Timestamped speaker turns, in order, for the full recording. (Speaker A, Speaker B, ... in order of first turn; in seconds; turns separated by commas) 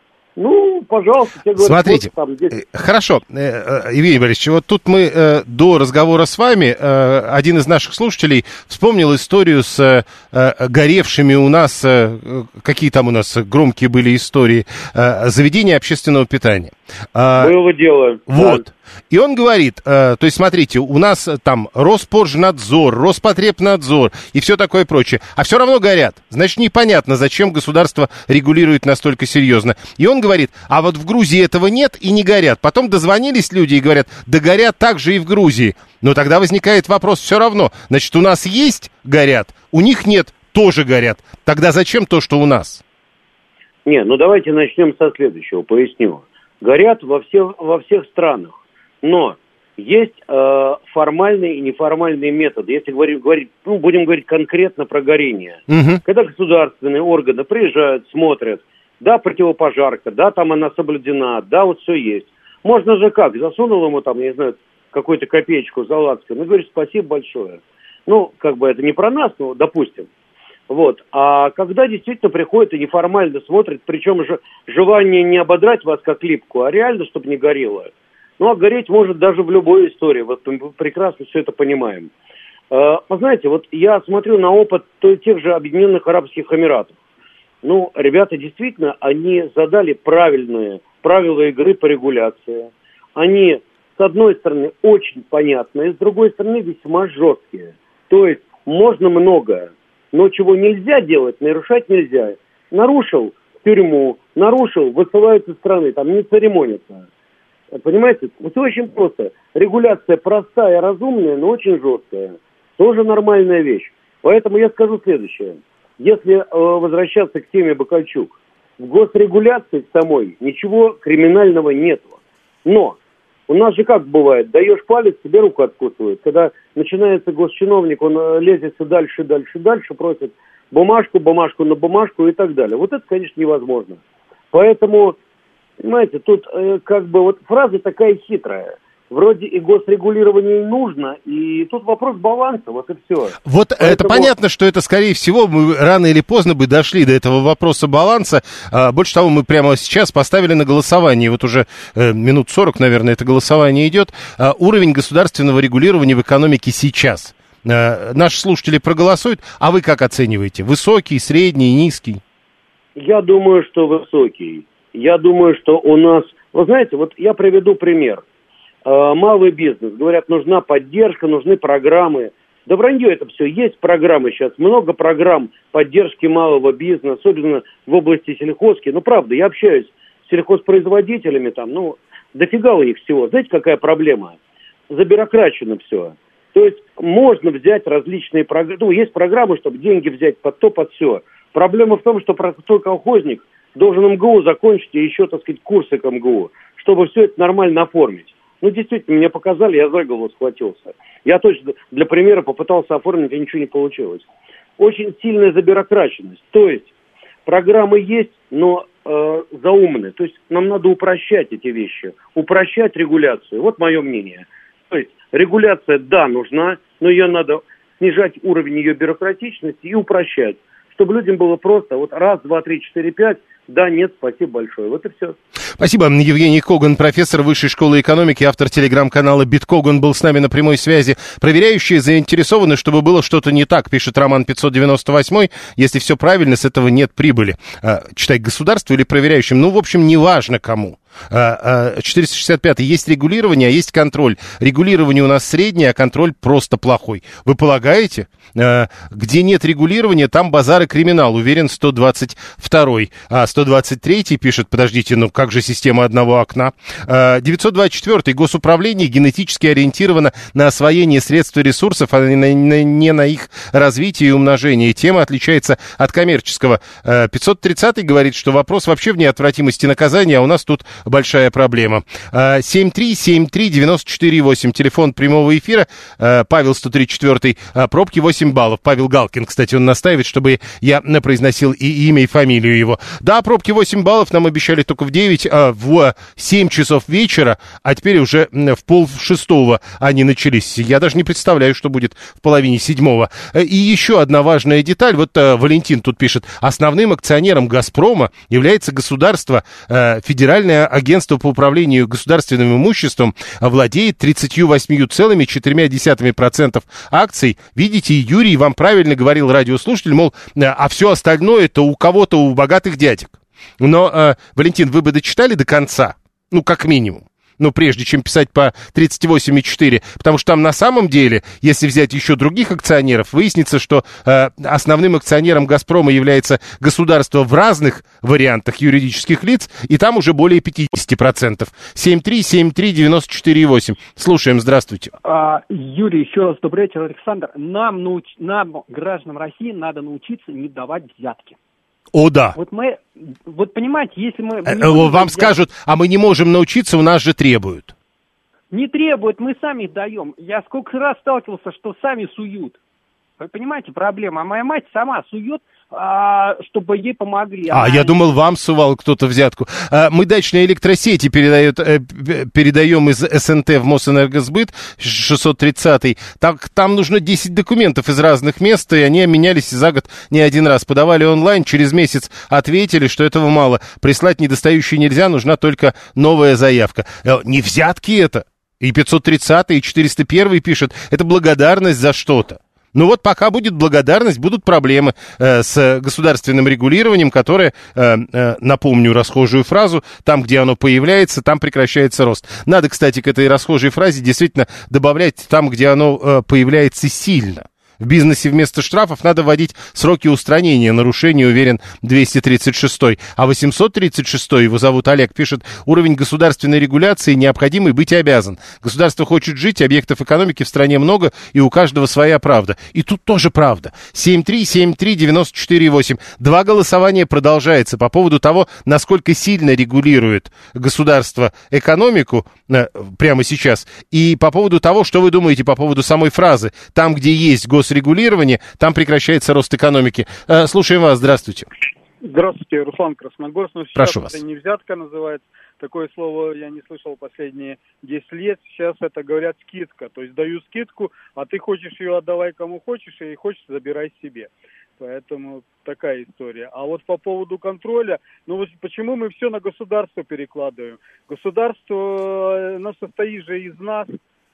Speaker A: 0.3-2.6, Speaker B: 1.6-17.6, Speaker A: 17.4-18.7, Speaker B: 18.3-42.8, Speaker A: 43.8-70.1, Speaker B: 55.7-56.0, Speaker A: 70.7-82.1, Speaker A: 82.7-86.9, Speaker A: 87.6-107.0, Speaker A: 107.7-123.0, Speaker A: 123.5-134.0, Speaker A: 134.5-135.2, Speaker A: 135.8-144.3, Speaker B: 143.4-162.2, Speaker A: 162.9-168.2, Speaker A: 168.8-184.4, Speaker A: 184.9-204.3, Speaker A: 204.8-206.9, Speaker A: 207.4-225.4, Speaker B: 225.8-335.1, Speaker C: 335.2-341.6, Speaker B: 342.1-342.5, Speaker C: 342.5-345.6, Speaker B: 344.6-347.9, Speaker C: 348.7-352.8, Speaker C: 353.4-358.2, Speaker B: 357.7-431.7, Speaker D: 432.2-454.1, Speaker B: 433.9-434.4